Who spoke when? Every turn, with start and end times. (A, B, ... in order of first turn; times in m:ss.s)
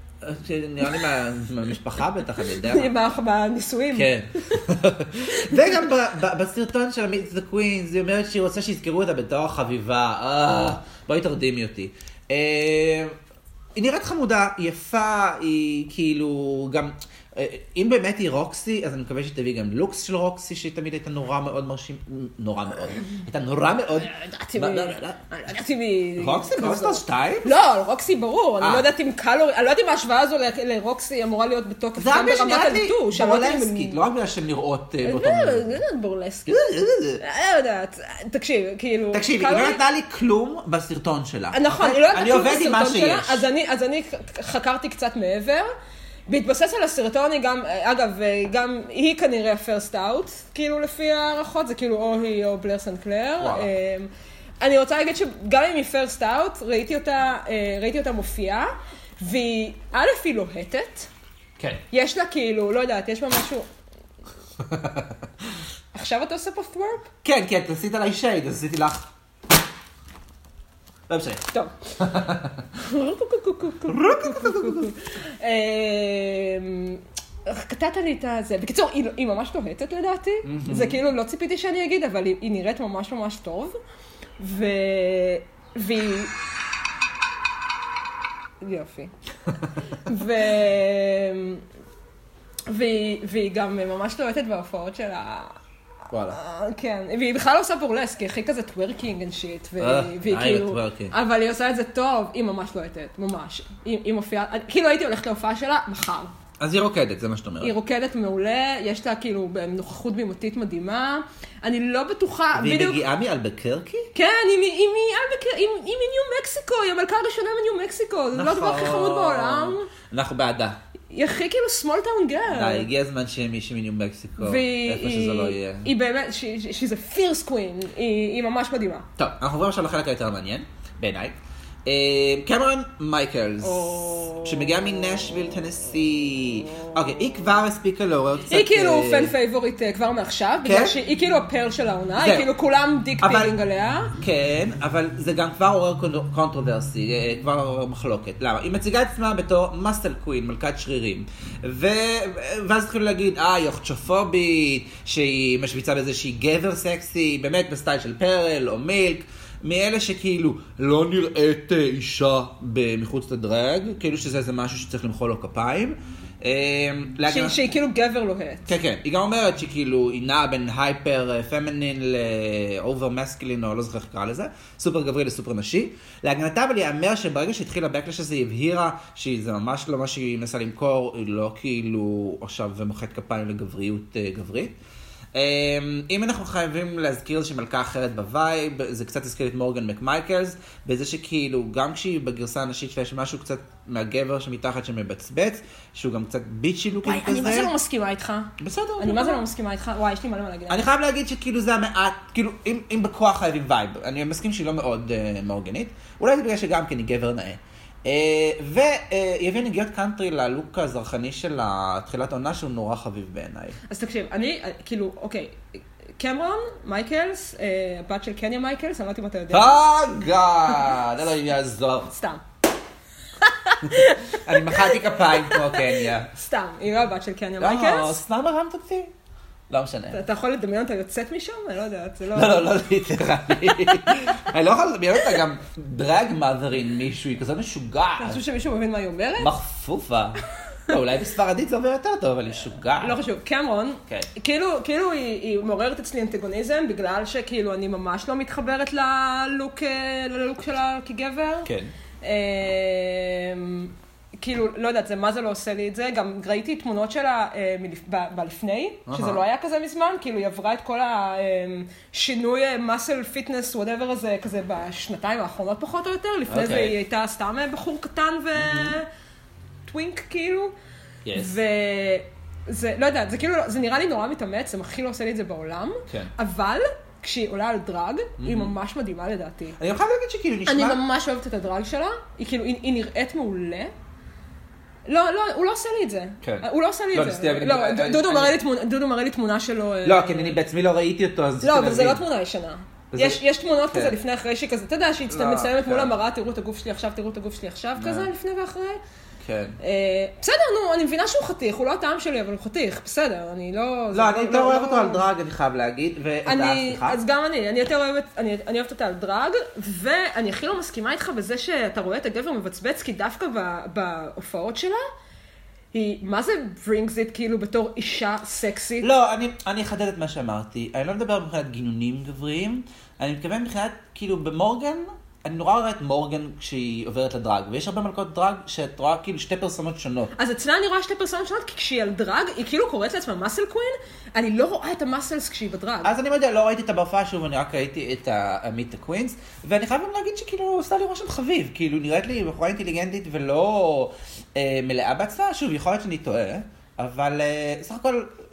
0:00.2-0:02.9 A
0:02.6-0:04.6 B
0:03.9-0:13.2 A
0:05.3-0:05.7 B
0:13.8-0:25.2 A
0:24.0-0:34.0 B
0:26.2-0:27.6 A
0:28.6-0:28.9 A
0:32.0-0:35.8 A
0:35.0-0:36.7 B
0:36.5-0:37.2 A
0:37.2-0:39.8 B
0:39.1-0:43.5 A
0:41.5-0:45.7 B
0:46.3-1:01.1 B
0:53.4-0:53.7 A
1:01.9-1:03.7 B
1:04.6-1:05.2 A
1:05.9-1:07.1 B
1:07.2-1:09.1 A
1:11.1-1:11.4 A
1:12.0-1:12.7 A
1:12.8-1:23.8 B
1:13.9-1:14.9 A
1:20.4-1:21.0 A
1:24.4-1:26.3 B
1:28.6-1:29.1 B
1:30.0-1:31.6 B
1:32.7-1:35.6 B
1:36.1-1:36.4 A
1:36.3-1:46.3 B
1:39.8-1:41.1 A
1:46.6-1:47.8 A
1:47.6-1:53.0 B
1:52.5-1:54.1 A
1:54.1-1:59.9 B
1:58.3-2:00.8 A
2:01.1-2:02.9 B
2:02.5-2:05.9 A
2:04.4-2:09.1 B
2:09.2-2:19.3 A
2:13.6-2:14.7 B
2:18.5-2:24.1 B
2:20.6-2:21.0 A
2:22.2-2:22.5 A
2:23.2-2:23.6 A
2:24.1-2:47.6 A
2:47.3-2:48.7 B
2:48.7-3:04.8 A
3:05.3-3:17.7 A
3:17.0-3:20.8 B
3:18.6-3:19.4 A
3:20.7-3:33.8 A
3:33.9-3:39.8 B
3:39.5-3:42.1 A
3:42.1-3:42.4 B
3:43.4-3:48.2 B
3:44.3-3:46.3 A
3:47.6-3:49.1 A
3:49.7-3:50.2 A
3:50.1-3:52.8 B
3:52.3-3:58.4 A
3:58.2-3:59.5 B
3:59.4-4:03.2 A
4:03.0-4:11.7 B
4:11.6-4:11.9 A
4:12.2-4:29.1 B
4:19.1-4:19.4 A
4:26.5-4:27.0 A
4:28.6-4:29.0 A
4:29.9-4:30.7 B
4:31.2-4:31.6 A
4:31.4-4:39.8 B
4:38.4-4:38.7 A
4:39.8-4:41.0 A
4:40.7-4:43.9 B
4:45.1-4:50.6 B
4:46.4-4:48.6 A
4:50.0-4:52.2 A
4:51.6-4:59.0 B
4:53.1-4:54.2 A
4:55.3-4:56.2 A
4:58.0-4:58.3 A
4:59.4-4:59.8 A
4:59.8-5:05.2 B
5:04.1-5:07.2 A
5:06.5-5:15.0 B
5:15.9-5:19.1 B
5:19.0-5:30.3 A
5:30.4-5:36.1 B
5:36.0-5:48.3 A